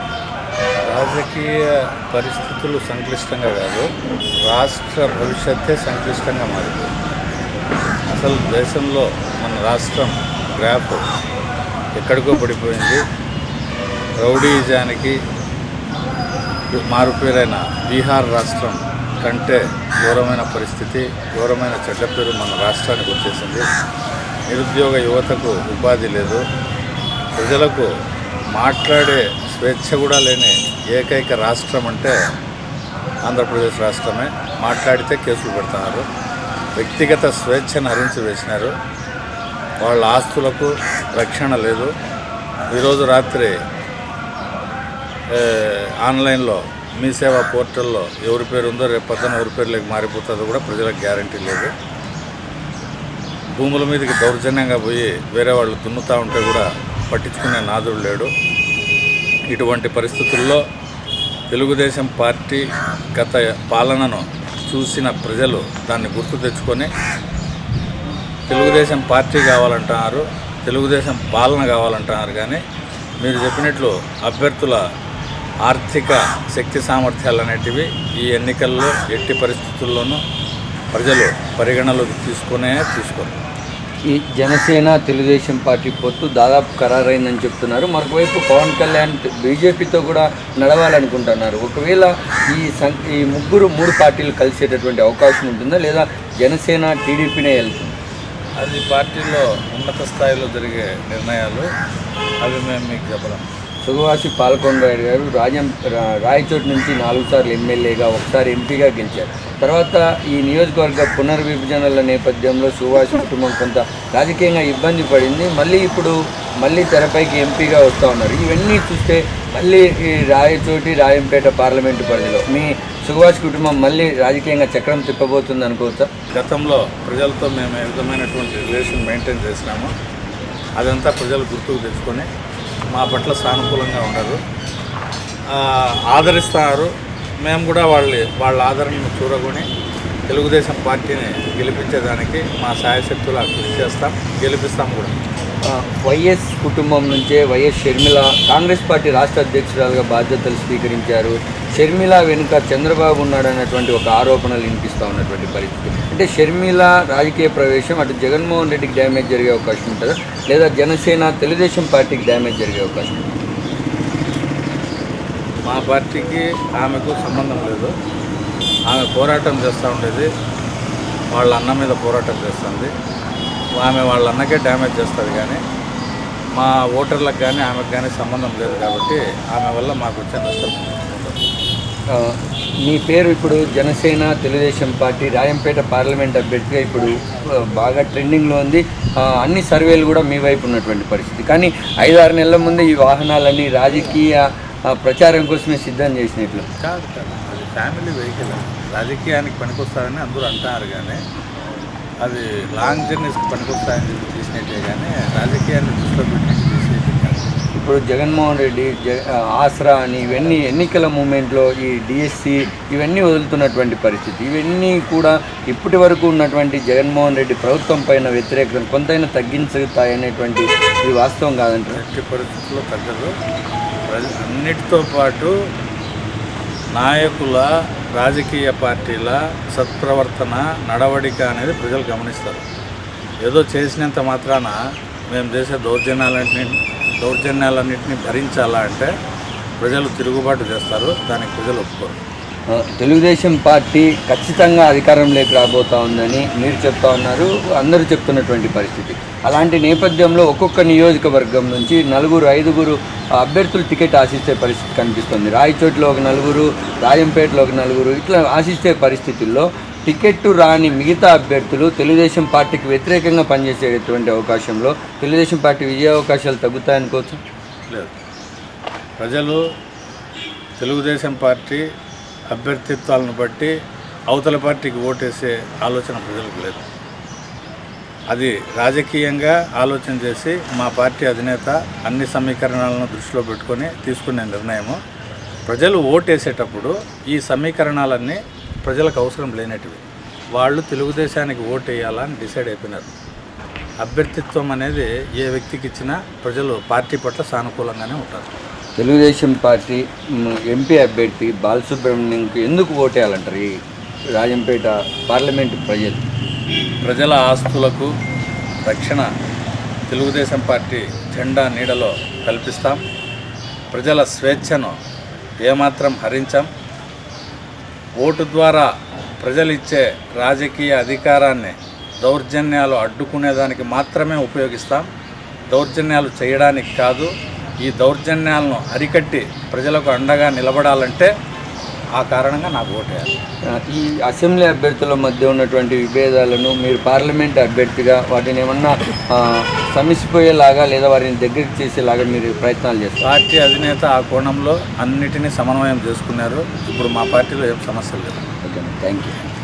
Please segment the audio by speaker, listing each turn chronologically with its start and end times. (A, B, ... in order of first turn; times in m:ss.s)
0:00.9-0:03.9 A
0:04.4-0:06.9 A
0:08.1-0:11.0 A
0:12.0-0:13.0 A
0:14.2-0:15.2 A
0:16.7-0:23.7 A
0:24.5-0:26.4 A
0:27.4-0:27.9 A
0:28.5-0:32.2 A
0:33.2-0:36.0 A
0:36.8-0:38.7 A
0:39.8-0:41.9 A
0:42.7-0:43.6 A
0:45.3-0:51.7 A
0:53.5-0:58.3 A
0:59.5-1:00.6 A
1:01.5-1:06.9 A
1:08.5-1:12.6 A
1:13.2-1:14.8 A
1:15.6-1:20.2 A
1:20.9-1:23.4 A
1:24.1-1:38.0 B
1:38.6-1:41.7 A
1:42.4-1:43.4 A
1:43.8-2:06.1 B
2:06.3-2:09.9 A
2:10.8-2:12.3 A
2:12.9-2:14.4 A
2:15.5-2:19.7 A
2:20.3-2:25.2 A
2:25.6-2:43.2 B
2:45.7-2:47.9 A
2:48.9-2:50.3 A
2:51.3-2:52.9 A
2:53.8-2:55.6 A
2:56.5-3:01.3 A
3:02.1-3:16.7 B
3:16.8-3:21.2 A
3:22.2-3:27.5 A
3:27.8-3:42.0 B
3:42.0-3:43.3 A
3:44.1-3:45.5 A
3:46.9-3:52.6 A
3:53.4-3:54.8 A
3:55.3-3:59.1 A
3:59.8-4:02.2 A
4:02.7-4:27.4 B
4:29.2-4:29.6 A
4:30.8-4:31.9 A
4:32.5-4:33.8 A
4:34.3-4:36.9 A
4:38.3-4:45.0 A
4:45.7-4:50.0 A
4:50.6-4:53.1 A
4:54.0-4:58.5 A
4:59.0-5:03.8 B
5:04.4-5:06.2 B
5:07.0-5:08.1 A
5:08.8-5:09.3 A
5:10.1-5:13.0 A
5:13.9-5:15.0 A
5:15.6-5:16.7 A
5:18.2-5:25.1 A
5:25.7-5:31.3 A
5:32.2-5:33.4 A
5:33.7-5:43.3 B
5:43.2-5:48.4 A
5:48.6-5:49.5 B